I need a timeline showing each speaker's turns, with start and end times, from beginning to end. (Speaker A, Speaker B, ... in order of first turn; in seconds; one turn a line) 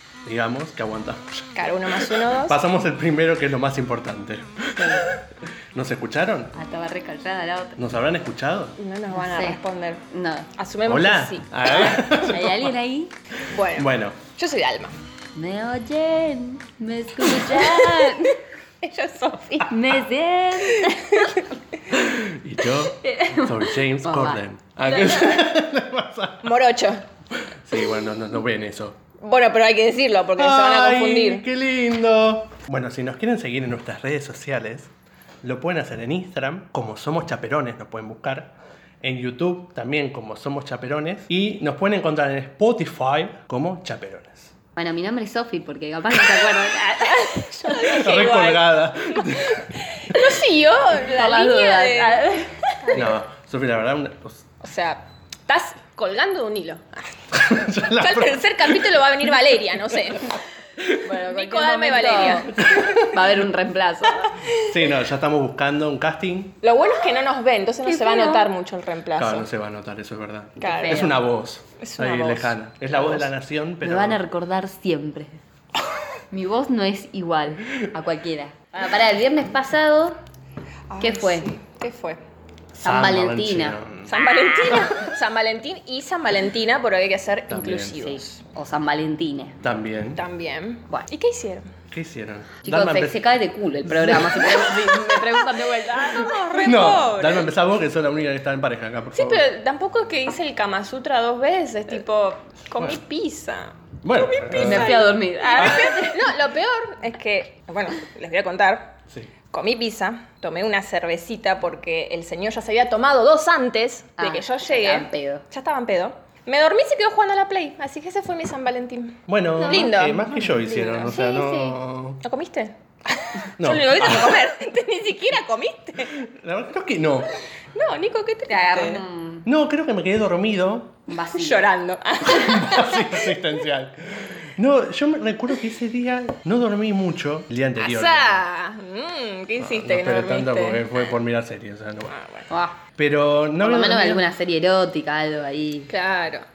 Speaker A: 0.2-5.2
Speaker B: 1.6-2.6
Speaker A: 5.7-6.5
Speaker C: 6.5-7.8
Speaker A: 7.8-8.8
Speaker B: 8.8-10.0
Speaker C: 9.1-10.5
Speaker B: 10.6-12.2
Speaker A: 10.9-12.7
Speaker C: 11.8-13.1
Speaker B: 13.5-15.0
Speaker A: 13.8-14.2
Speaker C: 15.4-18.4
Speaker B: 17.3-19.9
Speaker C: 19.7-21.4
Speaker B: 20.7-21.5
Speaker A: 21.9-26.6
Speaker C: 23.0-25.4
Speaker B: 26.4-27.1
Speaker A: 27.4-29.0
Speaker B: 29.2-31.4
Speaker A: 30.4-34.9
Speaker A: 35.4-44.5
Speaker C: 44.8-48.0
Speaker B: 46.9-52.2
Speaker A: 47.9-49.7
Speaker C: 51.0-52.8
Speaker B: 52.8-53.2
Speaker A: 52.9-54.5
Speaker B: 54.6-60.3
Speaker A: 57.3-58.7
Speaker C: 61.0-64.4
Speaker B: 61.1-63.0
Speaker A: 62.6-63.2
Speaker B: 64.2-64.7
Speaker A: 64.6-66.6
Speaker B: 66.6-69.5
Speaker C: 67.8-68.5
Speaker A: 69.2-74.2
Speaker B: 70.6-71.2
Speaker C: 70.7-71.2
Speaker B: 71.8-73.2
Speaker C: 73.8-75.3
Speaker C: 76.3-80.2
Speaker B: 80.9-82.2
Speaker C: 81.0-81.5
Speaker C: 82.8-84.9
Speaker A: 82.8-84.2
Speaker B: 84.1-88.4
Speaker A: 87.5-88.1
Speaker C: 88.1-89.6
Speaker A: 89.6-90.2
Speaker B: 90.2-91.7
Speaker A: 91.9-93.2
Speaker C: 92.6-96.6
Speaker A: 93.8-94.6
Speaker B: 94.4-97.5
Speaker A: 96.6-99.5
Speaker B: 99.1-108.9
Speaker A: 104.0-105.9
Speaker C: 104.6-106.3
Speaker B: 109.5-121.1
Speaker C: 114.2-115.4
Speaker A: 119.3-122.2
Speaker C: 119.7-119.9
Speaker C: 120.5-121.8
Speaker B: 122.2-126.2
Speaker A: 123.6-124.4
Speaker A: 126.1-127.3
Speaker B: 127.7-129.1
Speaker C: 128.5-129.5
Speaker A: 129.4-131.0
Speaker C: 131.1-131.7
Speaker B: 131.3-133.4
Speaker A: 132.3-138.4
Speaker B: 137.8-141.0
Speaker A: 139.6-142.2
Speaker B: 142.1-142.5
Speaker C: 142.5-142.8
Speaker A: 143.0-144.3
Speaker C: 143.6-145.9
Speaker B: 145.9-146.5